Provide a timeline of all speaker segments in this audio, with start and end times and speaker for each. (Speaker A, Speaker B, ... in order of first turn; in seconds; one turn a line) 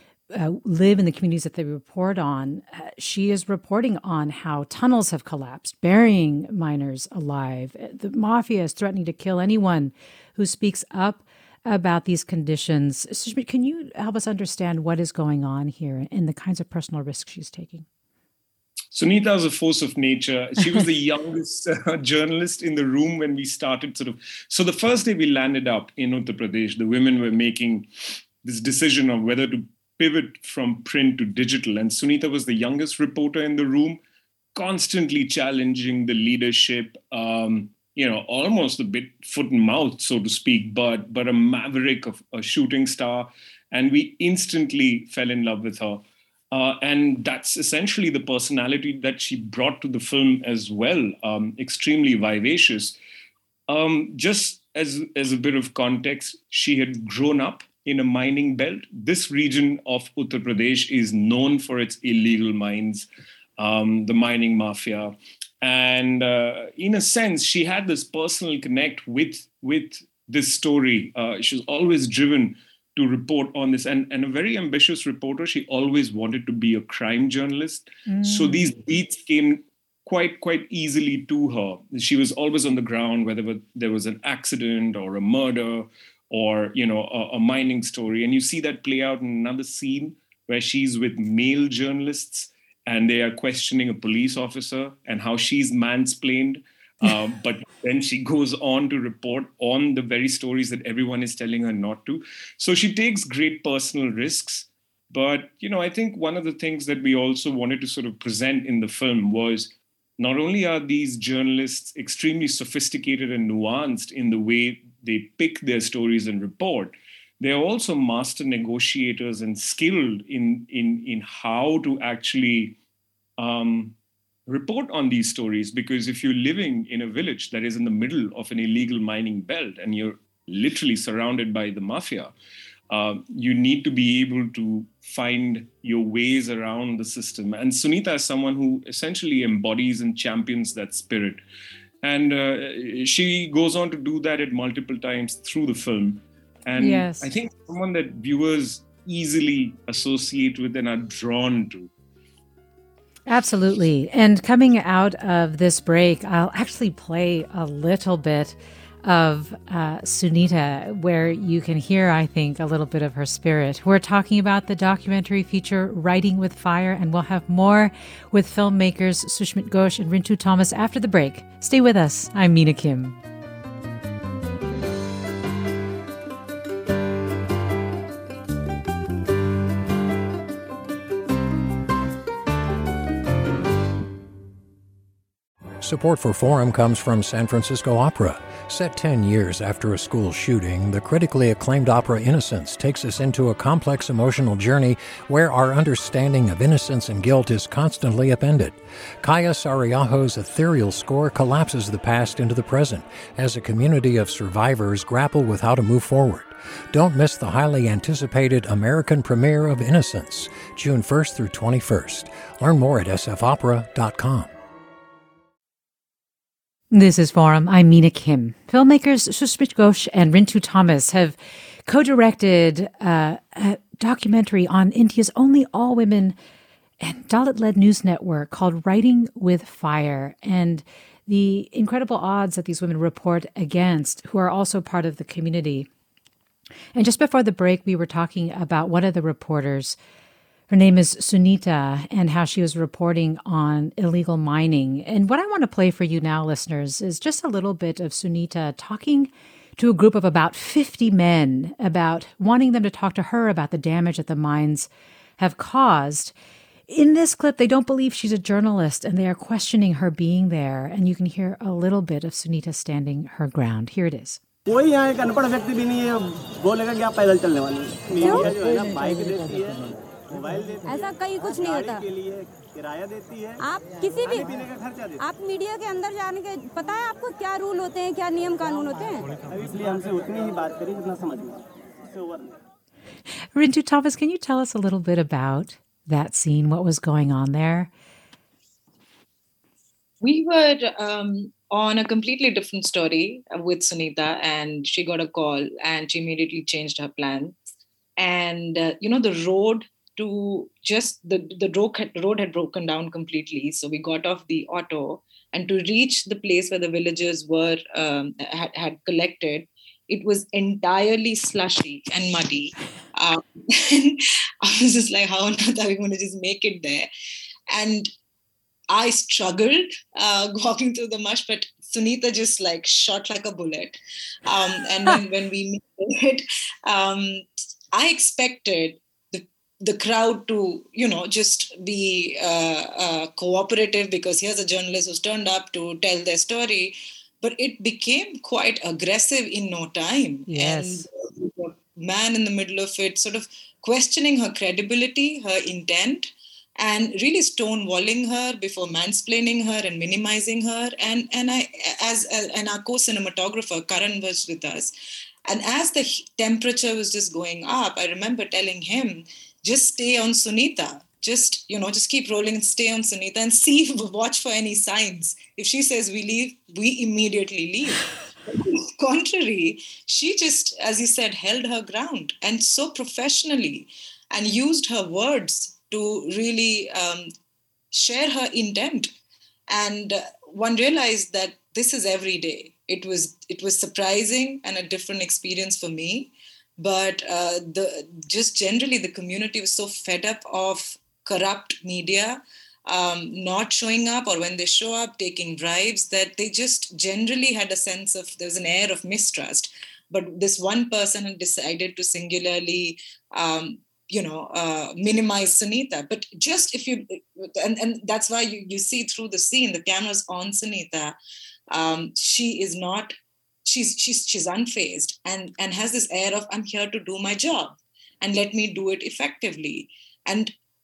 Speaker A: 0.3-17.9
Speaker B: 18.9-27.9
Speaker B: 28.4-34.0
Speaker B: 34.5-53.0
Speaker B: 53.7-63.0
Speaker B: 63.6-122.8
Speaker A: 78.1-78.7
Speaker B: 123.4-123.9
Speaker B: 124.5-132.3
Speaker B: 132.9-141.4
Speaker B: 142.0-151.9
Speaker A: 146.8-147.3
Speaker A: 153.3-173.2
Speaker C: 185.8-214.5
Speaker A: 216.9-226.3
Speaker A: 227.0-235.9
Speaker A: 236.9-240.0
Speaker A: 240.7-256.3
Speaker A: 256.9-264.4
Speaker D: 264.7-271.0
Speaker E: 268.1-268.5
Speaker E: 270.9-272.0
Speaker D: 271.6-273.6
Speaker E: 273.6-274.6
Speaker D: 274.5-275.1
Speaker E: 275.2-279.3
Speaker D: 279.4-282.6
Speaker A: 283.5-287.9
Speaker F: 290.2-297.5
Speaker F: 298.2-317.1
Speaker F: 317.7-318.1
Speaker F: 318.9-354.9
Speaker A: 340.5-341.0
Speaker F: 355.4-377.3
Speaker F: 377.9-379.1
Speaker F: 379.7-411.1
Speaker F: 411.7-413.1
Speaker F: 413.6-420.5